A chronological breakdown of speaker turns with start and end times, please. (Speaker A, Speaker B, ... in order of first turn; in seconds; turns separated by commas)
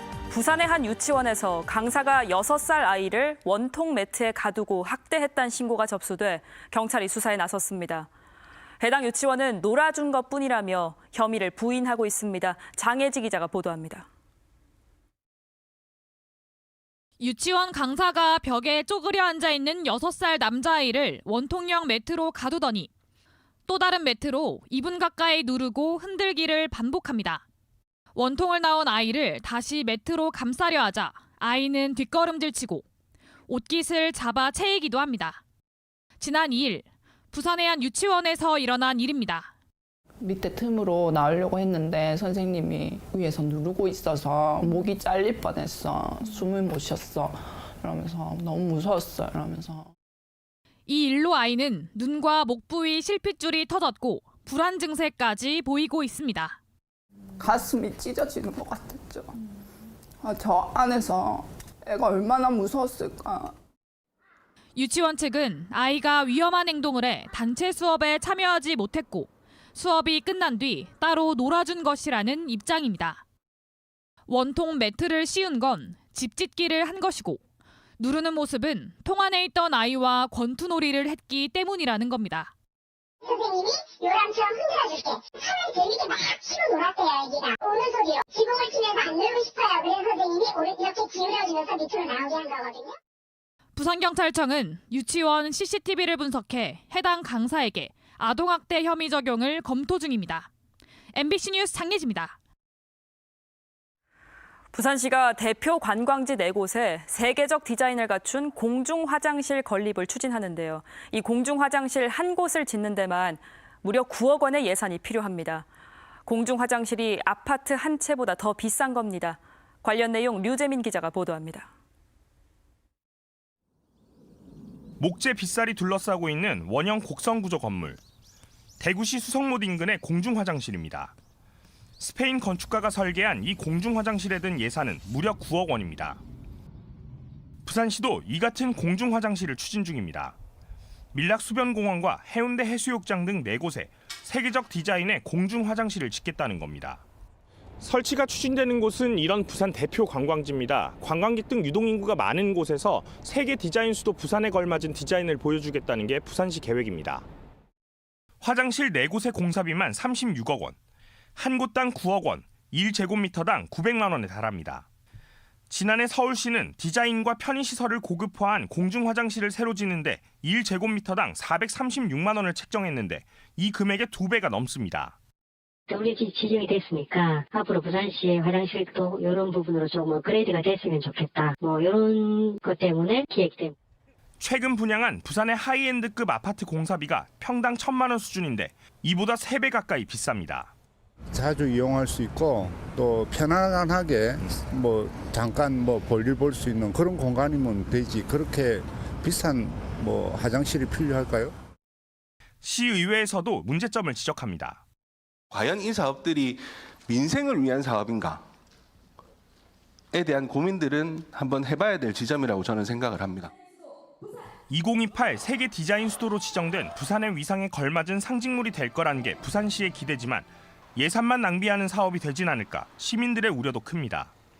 Speaker A: 0.3-8.1, Speaker A: 8.8-14.1, Speaker B: 17.2-22.9, Speaker B: 23.7-27.4, Speaker B: 28.1-32.8, Speaker B: 33.5-35.4, Speaker B: 36.2-39.5, Speaker C: 40.2-49.9, Speaker B: 50.9-56.6, Speaker C: 57.4-59.4, Speaker C: 60.2-63.5, Speaker B: 64.8-73.2, Speaker B: 74.3-77.4, Speaker B: 78.0-82.5, Speaker D: 83.2-92.9, Speaker B: 93.7-100.5, Speaker B: 101.1-102.3, Speaker A: 104.7-115.7, Speaker A: 116.2-121.7, Speaker E: 125.0-128.0, Speaker E: 128.8-131.1, Speaker E: 132.0-136.2, Speaker E: 137.6-140.3, Speaker E: 141.1-147.0, Speaker E: 147.8-157.2, Speaker E: 158.4-160.8, Speaker E: 161.3-164.8, Speaker E: 165.7-175.2, Speaker F: 175.9-183.7, Speaker E: 184.4-190.7, Speaker G: 191.3-201.5, Speaker E: 202.6-204.8, Speaker H: 205.5-208.4, Speaker H: 210.1-213.5, Speaker E: 214.7-224.3